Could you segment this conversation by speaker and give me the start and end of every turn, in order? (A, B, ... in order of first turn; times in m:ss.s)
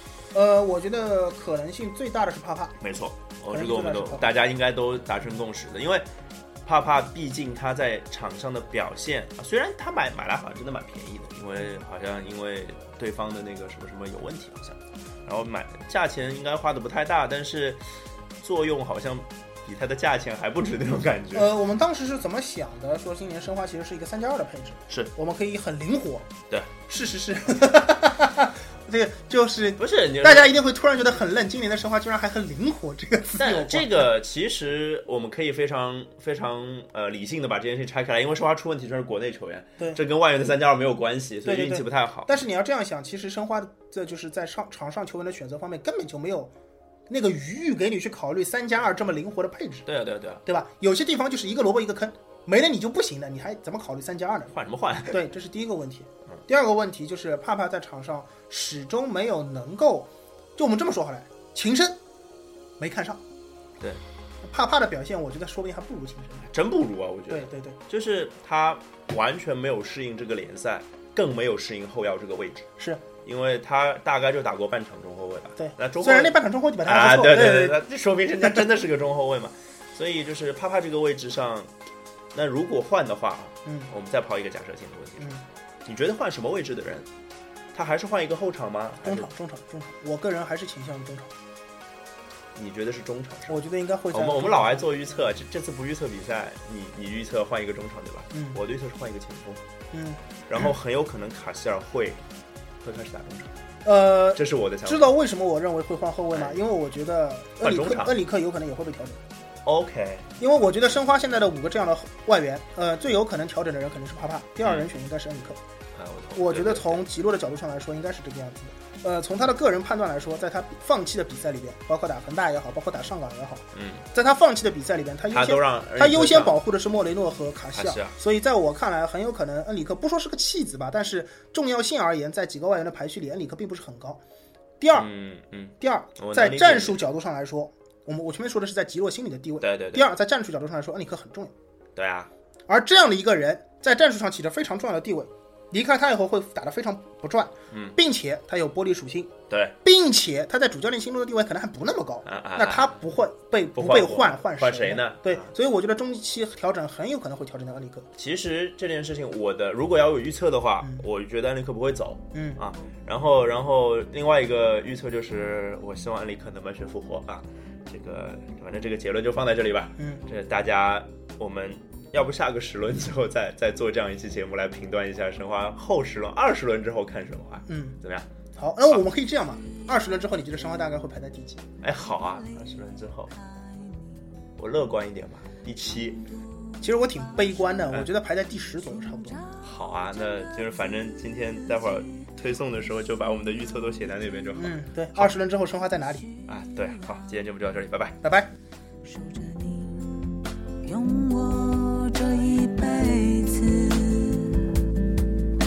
0:00.3-0:02.8 A
0:02.8-0:06.0 B
0:03.5-0:04.3 A
0:06.6-0:17.8 B
0:18.4-0:21.5 B
0:21.3-0:26.3 A
0:26.9-0:34.1 A
0:29.8-0:30.6 B
0:33.4-0:42.3 B
0:41.4-0:46.5 A
0:47.1-0:49.9 A
0:49.9-0:50.4 B
0:50.4-0:54.6 A
0:54.5-0:55.2 B
0:55.1-1:02.0 A
1:02.8-1:03.2 A
1:04.4-1:06.5 A
1:06.5-1:12.7 B
1:07.3-1:07.8 A
1:13.2-1:21.7 B
1:15.6-1:17.8 A
1:22.3-1:25.3 B
1:25.2-1:25.4 A
1:25.8-1:27.1 B
1:27.7-1:29.3 B
1:29.0-1:31.3 A
1:32.6-1:39.6 B
1:33.5-1:34.8 A
1:39.9-1:40.7 A
1:40.5-1:42.2 B
1:42.8-1:43.6 B
1:43.8-1:49.2 A
1:44.3-1:45.1 B
1:46.3-1:46.6 B
1:47.6-1:48.2 B
1:49.6-1:50.3 B
1:50.4-1:55.6 A
1:54.6-1:54.9 B
1:56.0-1:57.1 B
1:56.3-2:14.2 A
2:03.7-2:04.1 B
2:05.3-2:06.6 B
2:07.7-2:08.1 B
2:14.8-2:15.1 A
2:15.0-2:17.0 B
2:15.8-2:21.5 A
2:19.6-2:20.1 B
2:22.0-2:22.3 B
2:22.7-2:38.1 A
2:27.7-2:28.0 B
2:29.5-2:29.8 B
2:32.2-2:33.0 B
2:33.7-2:35.5 B
2:38.2-2:58.3 B
2:42.3-2:42.6 A
2:57.7-2:58.0 A
2:58.6-3:01.6 A
3:01.8-3:03.3 B
3:03.6-3:04.1 C
3:04.6-3:06.2 B
3:06.8-3:09.4 A
3:09.6-3:15.3 B
3:14.6-3:16.3 A
3:16.4-3:18.2 B
3:18.2-3:18.5 A
3:19.0-3:24.8 C